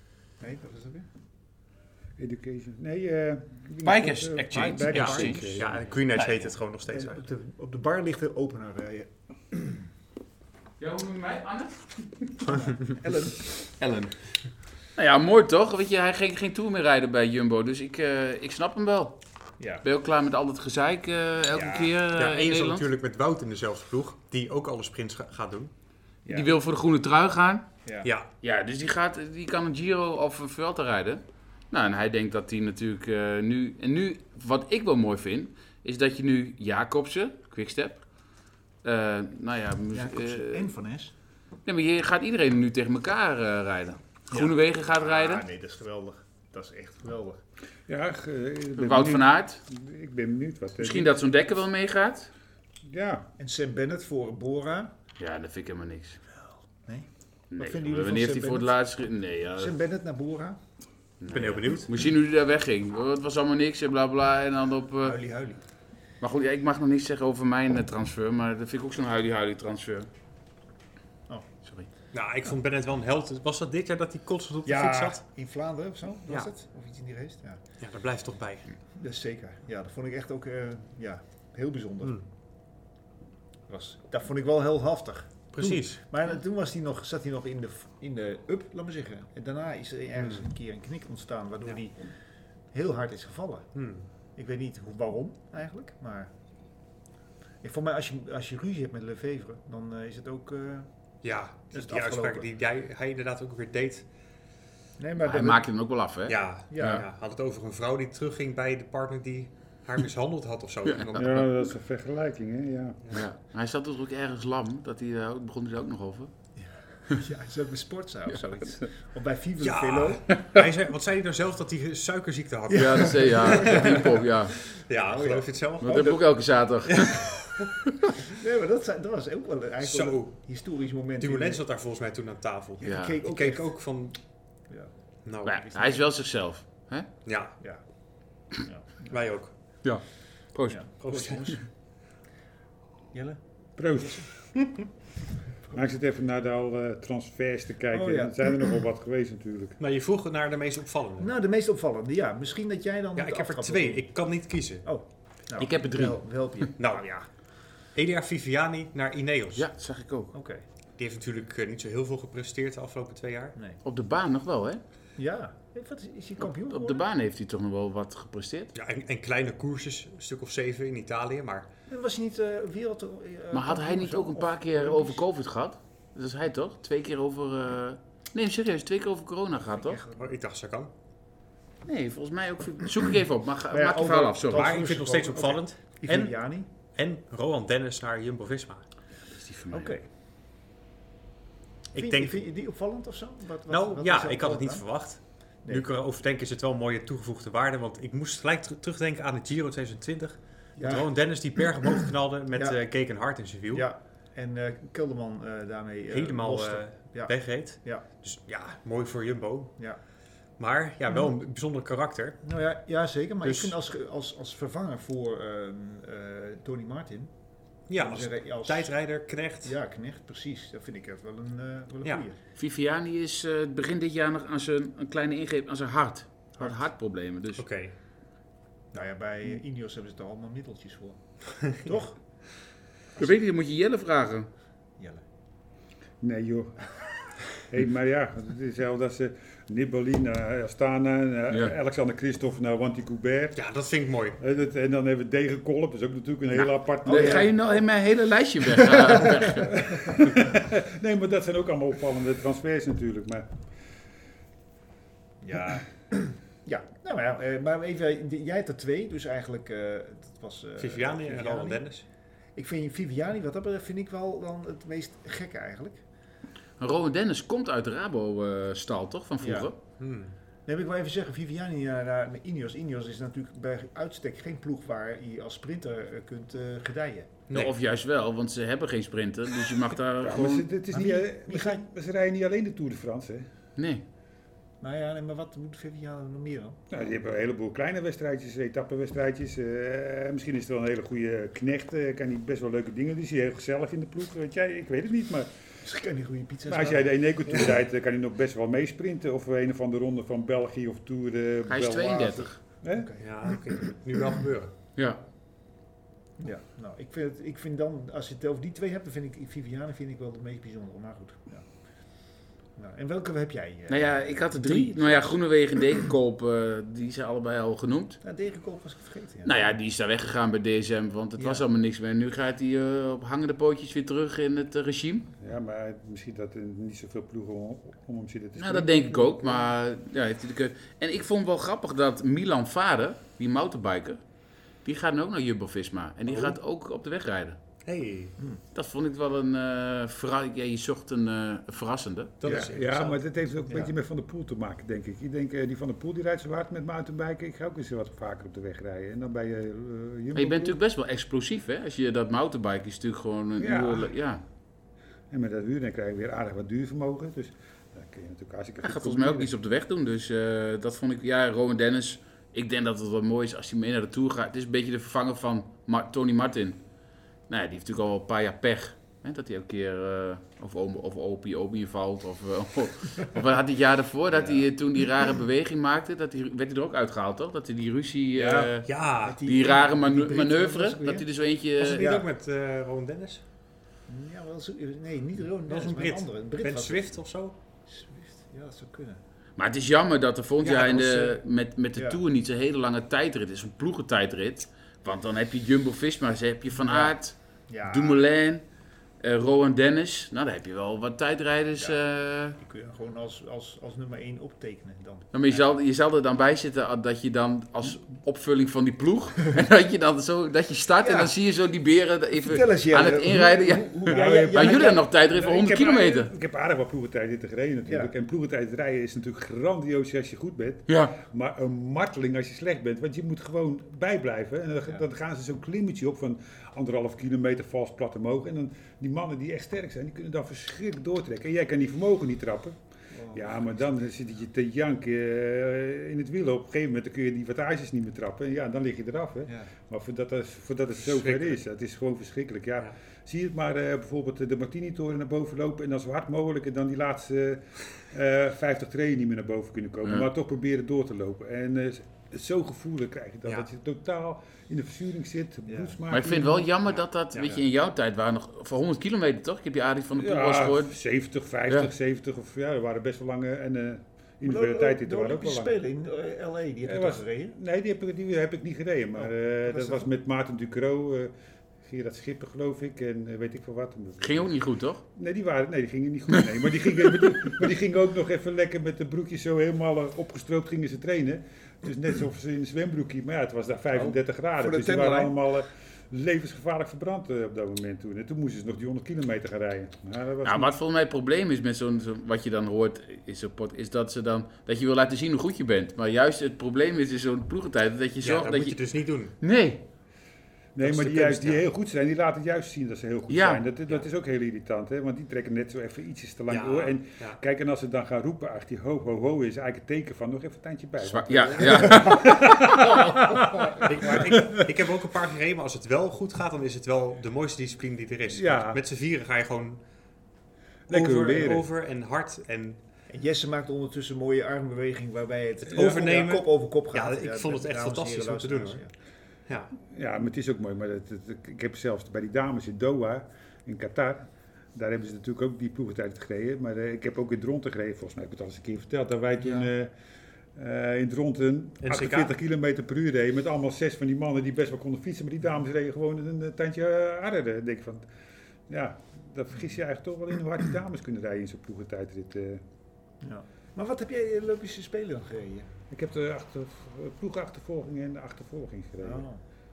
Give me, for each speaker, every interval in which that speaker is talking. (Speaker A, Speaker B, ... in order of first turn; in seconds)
Speaker A: 0.4-1.1, 6.9-9.9, 12.5-13.7, 19.6-19.8, 21.5-22.0, 26.2-26.5, 27.9-28.1, 39.9-41.1, 44.3-47.4, 53.4-54.9, 56.8-58.8, 59.6-60.6, 65.0-65.6, 74.7-77.6, 78.9-82.2, 83.7-92.1, 92.7-93.8, 94.4-96.3, 97.6-100.9, 101.7-102.5, 105.0-105.7, 106.7-107.0, 116.6-120.2, 123.4-124.0, 125.1-126.2, 128.3-131.6, 132.8-133.7, 135.5-136.0, 138.5-139.2, 140.7-141.6, 143.1-143.4, 143.9-144.3, 147.9-148.7, 151.2-154.1, 154.8-157.3, 160.3-160.6, 165.2-167.1, 171.9-175.2, 179.6-180.3, 183.7-186.7, 189.7-190.1, 191.9-194.9, 200.8-201.4, 202.5-202.8, 203.7-208.1, 212.4-217.3, 218.0-218.9, 219.6-222.4, 228.9-232.2, 235.0-235.2, 247.1-247.6, 255.4-262.0, 262.6-266.0, 269.4-269.7, 270.7-277.4, 280.9-281.8, 284.8-286.9, 295.8-297.7, 302.9-303.6, 306.4-311.7, 312.8-315.3, 318.2-319.6, 321.4-321.6, 343.7-343.9, 374.3-374.7, 378.4-381.3, 381.9-382.3, 384.1-387.1, 387.9-389.2, 392.0-392.2, 396.8-397.2, 397.7-398.2, 402.6-405.7, 411.0-411.3, 412.4-415.1, 417.9-418.1, 433.1-433.8, 455.7-455.9, 464.4-467.6, 469.2-470.1, 484.6-485.4, 523.1-528.9, 553.2-555.7, 559.0-559.4
Speaker B: 2.2-5.8, 47.9-51.1, 52.9-53.3, 111.2-113.2, 143.8-144.3, 145.7-149.8, 236.2-236.9, 237.5-243.6, 244.4-247.5, 249.6-253.5, 280.2-283.5, 286.9-295.6, 296.7-303.1, 325.4-329.6, 342.4-350.8, 353.6-354.1, 355.3-359.5, 414.1-432.8, 433.3-456.7, 460.2-465.8, 466.9-474.5, 475.1-490.7, 500.8-514.5, 518.3-518.8, 520.9-521.7, 529.8-539.9, 540.5-548.1, 548.7-552.6, 555.9-559.3
Speaker C: 3.8-6.5, 10.8-12.5, 14.9-19.2, 19.8-22.9, 26.3-27.7, 28.4-38.0, 38.8-40.7, 41.7-45.5, 48.8-49.6, 50.8-52.3, 55.2-56.2, 57.5-59.8, 61.2-65.2, 66.2-70.1, 105.2-107.0, 111.0-111.2, 113.1-116.3, 122.7-124.7, 125.8-127.7, 132.8-133.2, 135.4-137.1, 139.8-140.8, 155.6-156.7, 159.6-160.3, 163.8-164.8, 166.7-168.7, 173.5-180.0, 181.8-184.7, 189.3-189.9, 222.6-227.7, 233.2-234.5, 246.6-249.9, 266.8-269.8, 277.5-280.7, 283.8-284.1, 301.7-302.6, 305.0-305.2, 313.9-318.2, 319.4-325.3, 328.6-334.2, 334.8-337.6, 338.7-342.6, 350.4-354.4, 358.8-366.8, 367.5-382.1, 389.6-398.6, 399.2-402.6, 405.3-416.3, 420.9-421.1, 456.1-460.9, 474.2-475.0, 477.1-477.5, 490.4-498.8, 499.3-499.8, 503.3-503.6, 511.0-513.7
Speaker D: 4.5-7.2, 22.1-25.7, 61.3-61.9, 72.1-75.2, 77.8-78.7, 85.5-86.0, 93.8-94.1, 101.2-104.1, 106.3-111.5, 119.6-126.2, 126.9-127.7, 129.8-130.4, 131.2-134.2, 135.2-135.6, 137.2-137.6, 139.1-139.5, 141.0-141.6, 149.8-151.3, 153.2-154.9, 156.8-157.0, 157.9-159.7, 161.0-163.6, 168.8-171.7, 180.2-180.9, 184.5-186.4, 186.9-188.8, 191.9-192.4, 193.7-203.9, 206.1-209.8, 210.6-212.4, 213.4-213.7, 217.9-219.8, 227.6-227.9, 243.6-244.4, 260.8-262.0, 270.0-270.3, 303.2-304.7, 336.3-336.6, 337.8-338.4, 342.4-343.2, 378.9-379.4, 381.8-383.4, 385.7-387.5, 390.6-391.4, 441.0-441.6, 498.2-499.3, 500.8-501.6, 506.5-507.4, 513.8-519.8, 520.9-522.8, 525.7-528.8, 529.5-529.7, 541.8-542.4